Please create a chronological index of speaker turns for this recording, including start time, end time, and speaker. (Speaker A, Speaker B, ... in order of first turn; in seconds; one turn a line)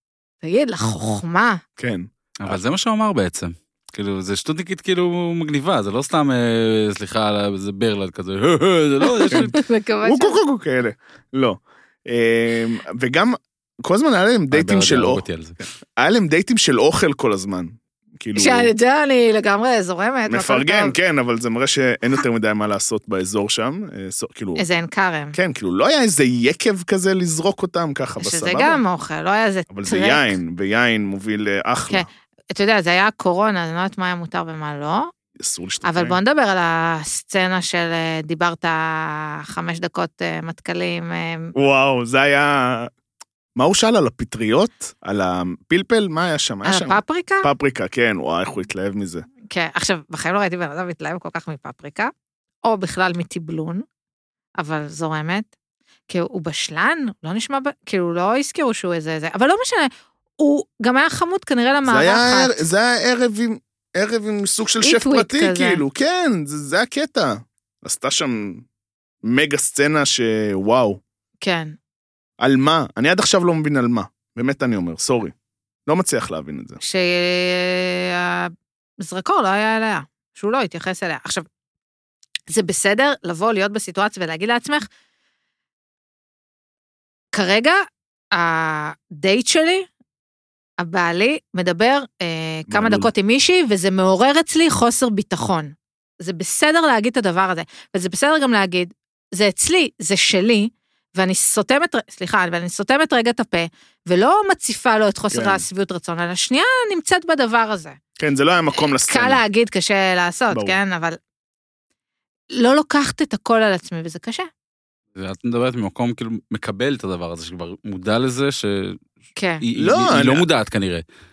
Speaker A: 0.4-1.6
Speaker B: 1.8-2.6
Speaker C: 2.4-9.6
Speaker A: 9.0-10.4
Speaker B: 10.0-15.2
Speaker C: 14.5-15.6
Speaker B: 16.0-18.7
Speaker A: 18.4-21.0
Speaker B: 20.3-24.6
Speaker A: 24.6-25.4
Speaker B: 25.3-28.8
Speaker A: 28.2-30.4
Speaker B: 29.7-32.1
Speaker A: 31.9-35.1
Speaker B: 35.4-36.2
Speaker A: 35.8-41.5
Speaker B: 41.5-42.9
Speaker B: 43.6-49.3
Speaker A: 46.6-47.5
Speaker A: 49.5-52.1
Speaker A: 52.6-53.8
Speaker A: 54.6-55.5
Speaker A: 56.1-62.6
Speaker B: 61.9-68.7
Speaker A: 64.8-65.8
Speaker B: 69.2-71.0
Speaker A: 71.4-71.8
Speaker B: 72.4-75.3
Speaker B: 75.9-76.8
Speaker A: 76.8-81.5
Speaker A: 82.5-84.9
Speaker A: 87.3-87.8
Speaker A: 88.3-89.9
Speaker A: 90.8-108.0
Speaker B: 92.7-93.1
Speaker B: 105.3-105.7
Speaker B: 108.2-109.4
Speaker A: 109.1-111.2
Speaker B: 110.5-110.8
Speaker A: 112.5-114.5
Speaker C: 115.2-119.0
Speaker A: 119.4-119.6
Speaker C: 119.6-121.0
Speaker B: 119.8-120.5